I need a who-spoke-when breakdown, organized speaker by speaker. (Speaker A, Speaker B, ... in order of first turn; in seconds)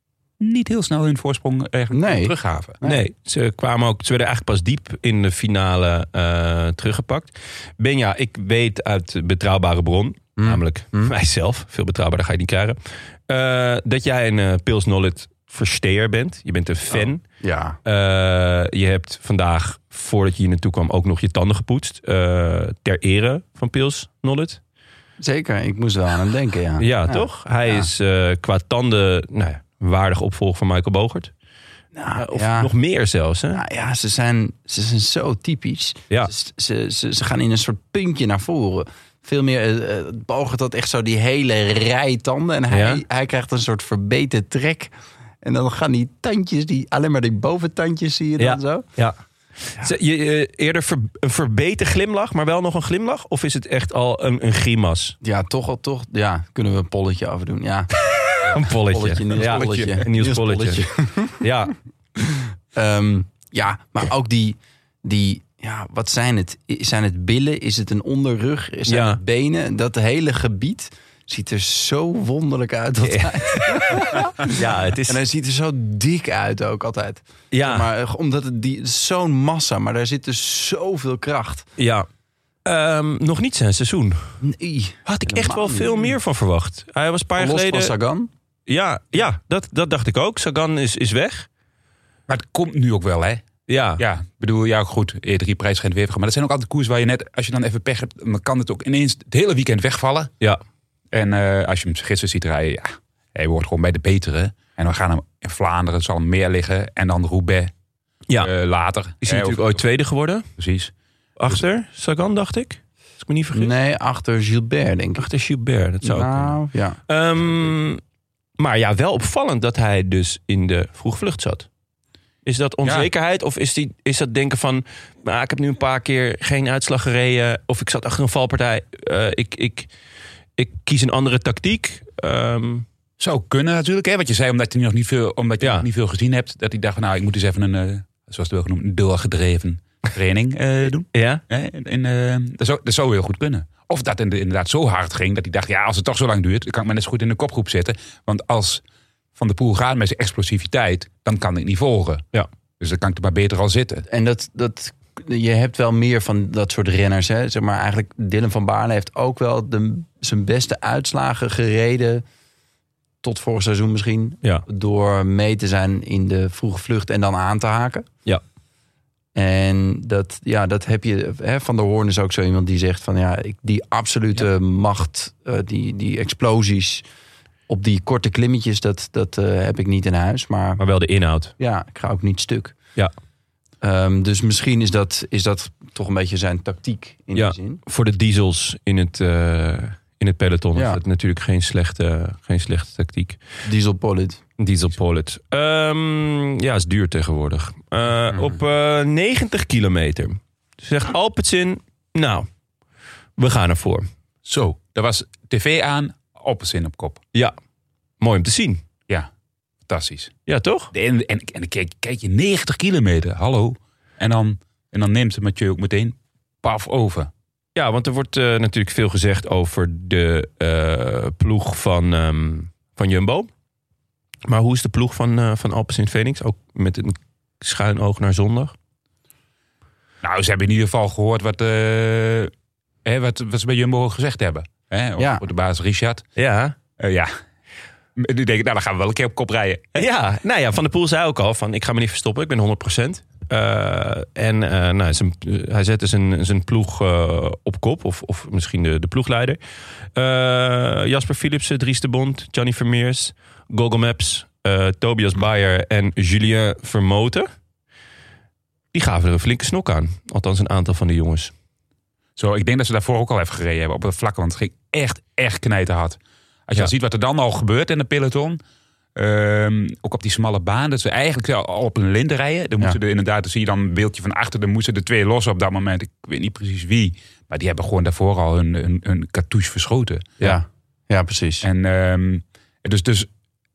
Speaker A: 0.4-2.8, 92.3-93.5, 94.0-100.3, 101.1-107.7, 108.4-109.8, 110.6-110.9, 133.2-148.8, 149.4-152.3, 152.8-154.1, 204.5-207.2, 209.9-210.3, 210.9-217.3, 230.2-232.5, 233.1-236.2, 237.0-237.3, 238.2-240.0, 262.4-268.6, 269.2-280.5, 281.6-283.3
Speaker B: 1.9-3.0, 10.4-11.1, 16.9-17.8, 25.2-27.9, 31.9-32.7, 33.5-48.9, 55.2-57.9, 58.6-61.4, 62.2-81.7, 84.4-86.2, 87.4-88.3, 113.5-115.2, 116.0-117.0, 154.1-162.2, 163.2-168.1, 169.3-177.1, 177.7-180.8, 181.6-182.8, 183.8-187.8, 190.8-191.0, 193.7-194.4, 235.2-235.4, 280.4-281.7
Speaker C: 2.8-12.8, 13.3-17.2, 17.9-24.6, 26.8-31.3, 32.2-33.6, 42.7-43.0, 48.4-49.2, 49.8-55.2, 58.5-60.9, 61.4-61.8, 68.9-69.2, 73.0-75.2, 77.5-77.9, 81.8-82.1, 82.7-84.3, 85.1-87.9, 88.7-91.5, 93.7-94.0, 109.2-110.5, 111.4-113.7, 115.2-118.0, 118.6-121.7, 122.5-129.9, 130.6-132.9, 135.6-135.9, 141.1-141.4, 180.8-181.5, 187.3-193.4, 194.6-202.5, 203.4-204.1, 208.2-208.8, 210.5-210.9, 217.8-223.5, 224.5-228.7, 236.4-236.8, 239.9-249.6, 250.2-257.5, 258.9-261.5